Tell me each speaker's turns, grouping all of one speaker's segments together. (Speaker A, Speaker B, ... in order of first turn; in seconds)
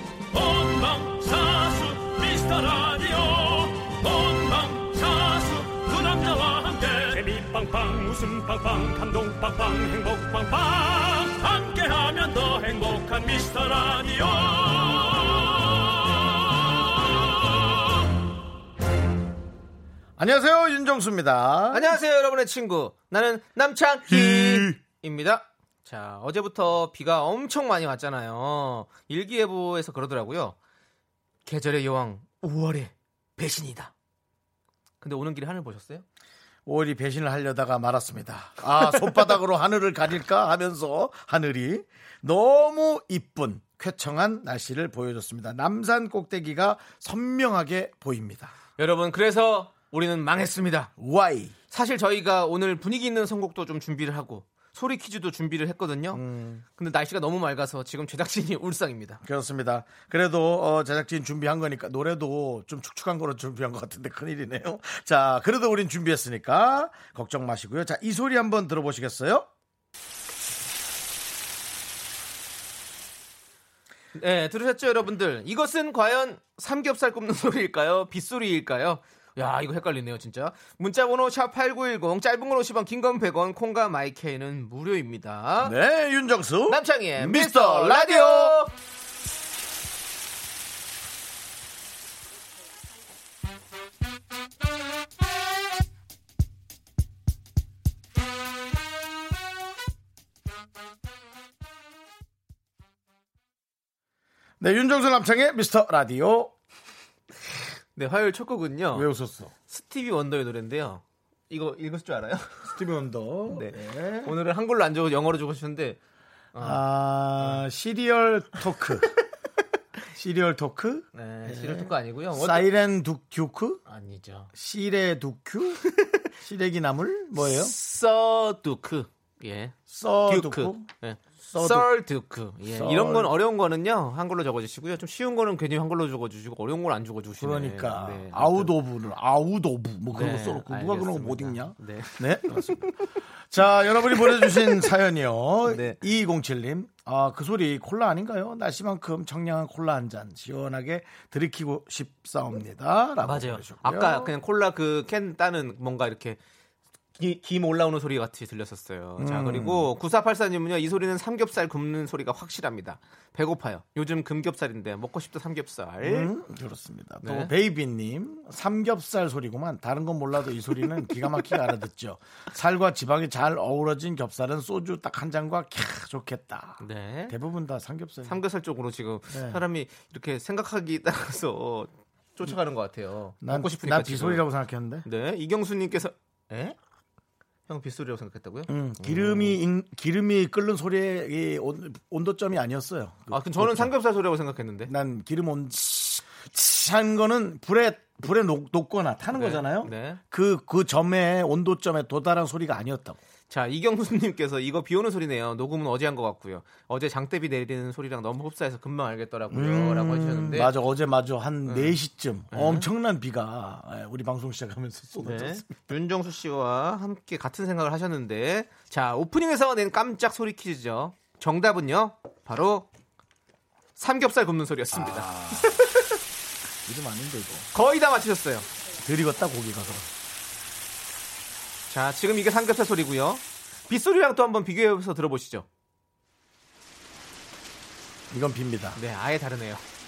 Speaker A: 0.3-17.9
Speaker B: 20.2-21.9, 24.1-24.8, 36.7-48.5, 51.0-51.5, 56.1-56.6, 59.2-69.5, 85.6-88.6, 104.6-106.5, 108.9-109.5, 112.6-114.3, 116.6-119.2, 120.1-123.8, 124.5-127.8, 129.9-130.9, 131.5-131.9, 132.7-133.3, 137.4-143.0, 143.5-154.3, 159.2-159.9, 166.0-178.4, 179.3-179.6, 183.4-185.1, 188.7-193.9, 194.9-203.2, 209.5-215.9, 224.9-225.9, 226.8-227.7, 229.0-230.1, 238.3-239.0
Speaker C: 21.7-30.6, 31.4-33.9, 35.0-36.0, 48.8-50.9, 51.7-56.2, 56.8-59.2, 74.2-85.8, 86.7-88.7, 107.9-109.1, 109.7-112.7, 113.5-116.0, 116.5-116.8, 117.4-117.7, 121.1-122.7, 123.9-124.5, 127.4-138.7, 140.1-143.1, 143.9-144.9, 145.7-146.0, 153.2-156.4, 157.2-166.3, 167.2-167.5, 176.8-177.4, 178.2-184.4, 185.1-186.8, 187.7-189.6, 193.3-194.9, 199.3-200.2, 203.5-210.7, 211.7-212.0, 212.5-212.9, 215.2-222.9, 224.0-226.2, 227.7-228.7, 231.9-235.7, 238.9-239.8